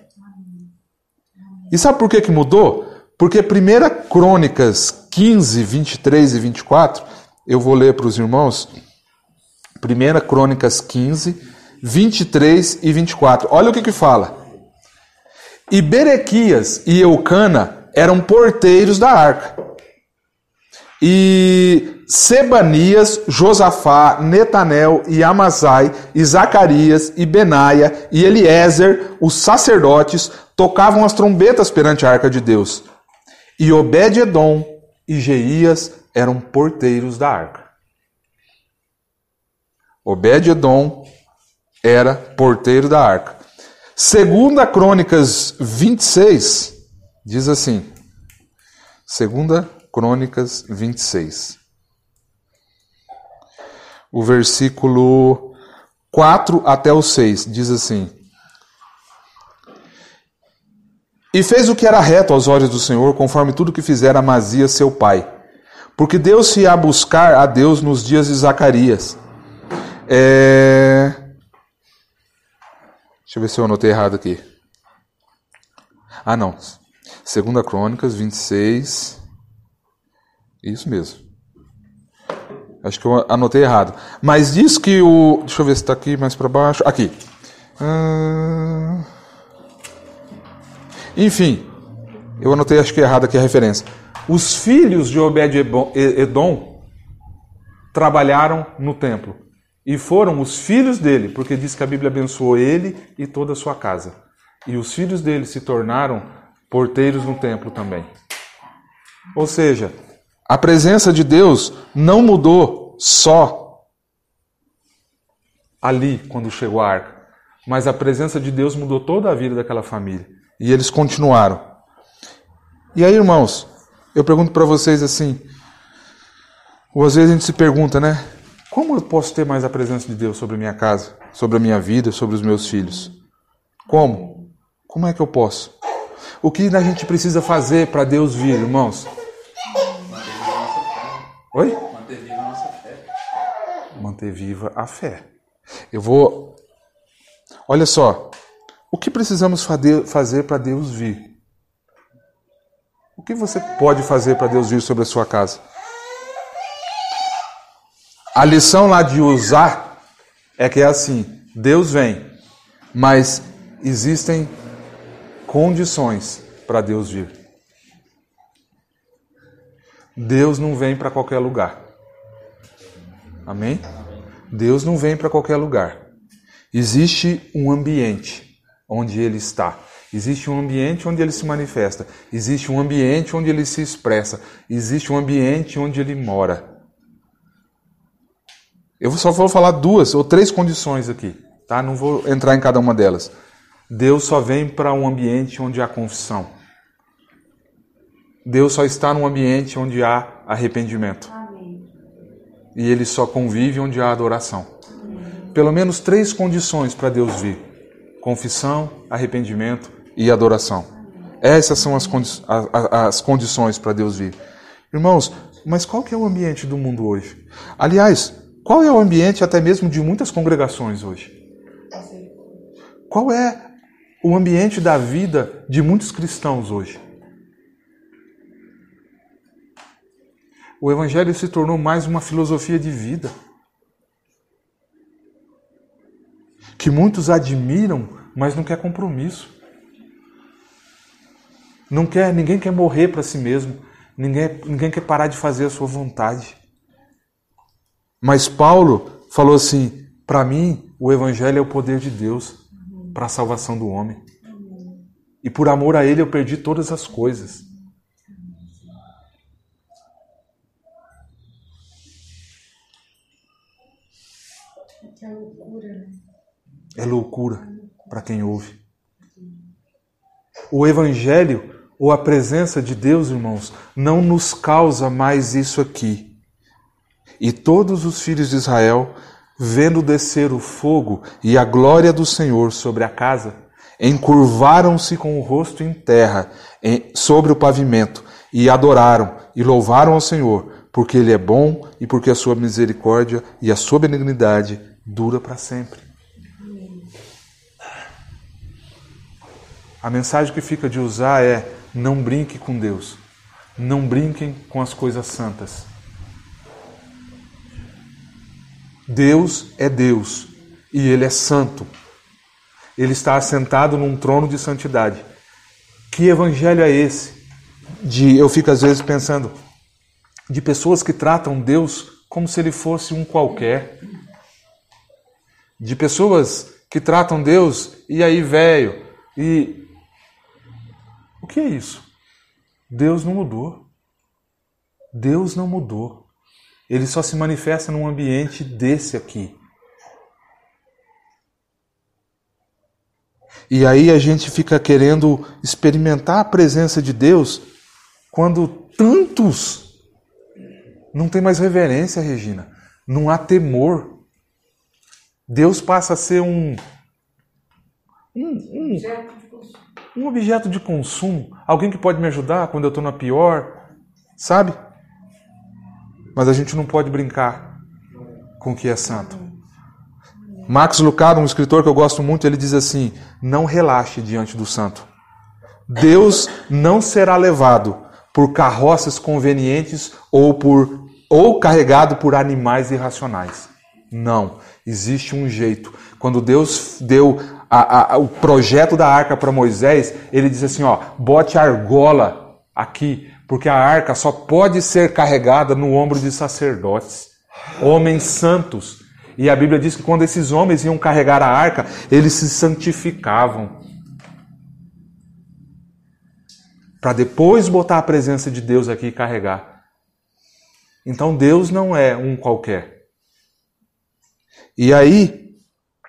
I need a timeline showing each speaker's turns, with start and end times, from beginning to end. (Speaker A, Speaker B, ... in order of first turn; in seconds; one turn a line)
Speaker A: 0.2-0.7
Speaker B: 1.7-8.7
Speaker B: 9.8-14.3
Speaker B: 15.7-19.6
Speaker B: 21.0-32.9
Speaker B: 33.6-37.7
Speaker B: 40.0-41.1
Speaker B: 41.8-43.4
Speaker B: 44.0-47.9
Speaker B: 49.1-51.6
Speaker B: 54.1-55.5
Speaker B: 56.1-58.1
Speaker B: 61.3-65.3
Speaker B: 66.0-69.2
Speaker B: 70.1-71.2
Speaker B: 73.3-74.4
Speaker B: 76.2-79.2
Speaker B: 80.6-81.2
Speaker B: 82.8-87.2
Speaker B: 87.8-89.1
Speaker B: 91.2-91.7
Speaker B: 92.4-96.8
Speaker B: 97.9-104.1
Speaker B: 104.7-108.1
Speaker B: 109.3-109.9
Speaker B: 110.5-113.8
Speaker B: 115.8-121.6
Speaker B: 122.9-125.4
Speaker B: 126.9-133.1
Speaker B: 133.9-134.3
Speaker B: 134.9-135.7
Speaker B: 136.4-139.1
Speaker A: 139.7-140.0
Speaker C: 140.1-141.3
Speaker B: 141.5-141.8
Speaker C: 141.8-143.1
Speaker B: 144.0-145.2
Speaker B: 145.9-146.6
Speaker B: 147.7-148.3
Speaker B: 148.9-151.3
Speaker B: 153.2-155.6
Speaker B: 158.3-159.9
Speaker B: 160.6-162.3
Speaker B: 162.9-164.5
Speaker B: 165.5-167.3
Speaker B: 170.2-171.8
Speaker B: 173.5-173.8
Speaker B: 174.5-176.0
Speaker B: 176.7-186.7
Speaker B: 189.0-193.3
Speaker B: 193.9-196.5
Speaker B: 198.4-201.3
Speaker A: 201.3-201.9
Speaker B: 202.8-204.7
Speaker A: 204.9-205.5
Speaker B: 205.5-207.6
Speaker B: 208.2-210.9
Speaker B: 211.4-214.4
Speaker B: 214.9-221.3
Speaker A: 221.9-222.5
Speaker B: 223.1-223.7
Speaker B: 224.2-227.0
Speaker B: 230.8-233.3
Speaker B: 236.8-239.5
Speaker B: 241.9-246.6
Speaker B: 248.2-252.6
Speaker A: 252.8-253.1
Speaker B: 253.1-254.2
Speaker A: 254.4-255.0
Speaker B: 255.4-257.6
Speaker A: 258.3-259.0
Speaker A: 265.0-266.2
Speaker B: 267.0-268.8
Speaker A: 269.3-269.6
Speaker B: 270.7-276.3
Speaker B: 277.4-296.0
Speaker A: 296.6-297.1
Speaker B: 300.0-303.2
Speaker B: 303.8-305.9
Speaker B: 309.1-311.9
Speaker B: 313.0-315.2
Speaker B: 316.1-317.4
Speaker B: 318.0-319.5
Speaker B: 320.5-323.9
Speaker B: 325.8-329.9
Speaker B: 331.4-332.1
Speaker B: 332.9-333.8
Speaker B: 335.1-336.2
Speaker B: 336.9-339.6
Speaker B: 343.7-347.6
Speaker B: 348.3-349.9
Speaker B: 351.1-354.2
Speaker B: 355.5-356.8
Speaker B: 358.3-359.1
Speaker A: 358.8-359.8
Speaker B: 360.1-363.8
Speaker B: 364.4-364.8
Speaker B: 366.4-367.7
Speaker B: 368.6-369.4
Speaker B: 370.7-375.1
Speaker B: 375.9-403.8
Speaker B: 407.0-409.7
Speaker B: 411.0-412.9
Speaker B: 414.8-415.5